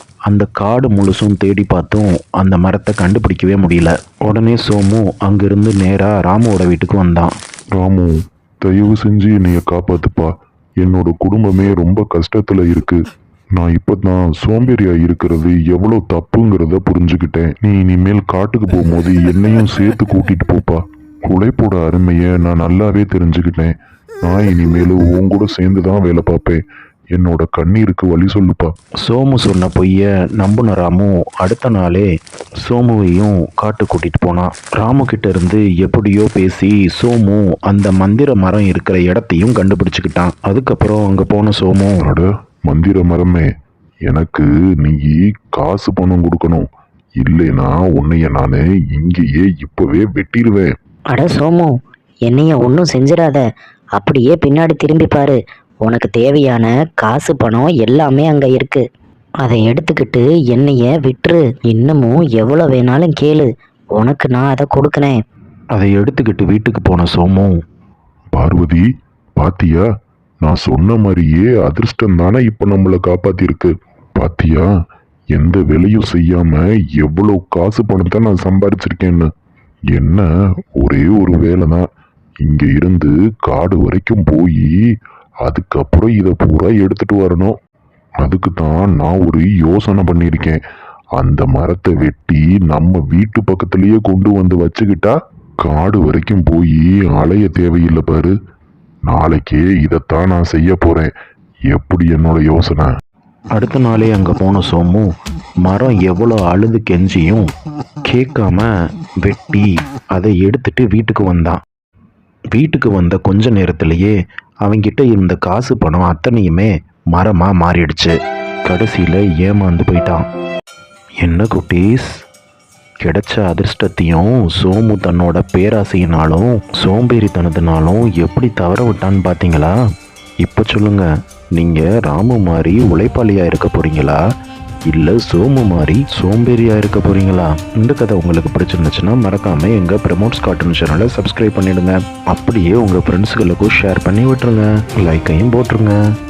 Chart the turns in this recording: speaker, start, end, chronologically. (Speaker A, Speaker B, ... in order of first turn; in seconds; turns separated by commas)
Speaker A: 0.3-7.3, Speaker B: 7.8-13.1, Speaker B: 13.6-26.6, Speaker B: 27.1-28.7, Speaker A: 29.0-32.1, Speaker A: 32.6-42.0, Speaker B: 42.0-43.5, Speaker B: 44.1-46.7, Speaker B: 47.2-50.7, Speaker C: 51.1-51.7, Speaker C: 52.3-53.4, Speaker C: 54.0-58.8, Speaker C: 59.4-65.2, Speaker A: 65.8-67.6, Speaker B: 68.3-68.8, Speaker B: 69.4-69.8, Speaker B: 70.4-74.7, Speaker B: 75.3-79.3, Speaker B: 79.9-80.3, Speaker B: 80.8-81.9, Speaker B: 82.4-84.7, Speaker B: 85.4-87.5, Speaker B: 88.2-90.6, Speaker B: 91.2-98.3, Speaker B: 99.1-101.1, Speaker B: 101.7-102.9, Speaker A: 103.5-105.1, Speaker A: 105.6-107.4, Speaker A: 108.1-108.7, Speaker A: 109.2-111.6, Speaker A: 112.5-114.1, Speaker A: 114.7-120.2, Speaker A: 121.2-122.1, Speaker A: 123.0-129.8, Speaker A: 130.4-134.2, Speaker A: 134.9-145.9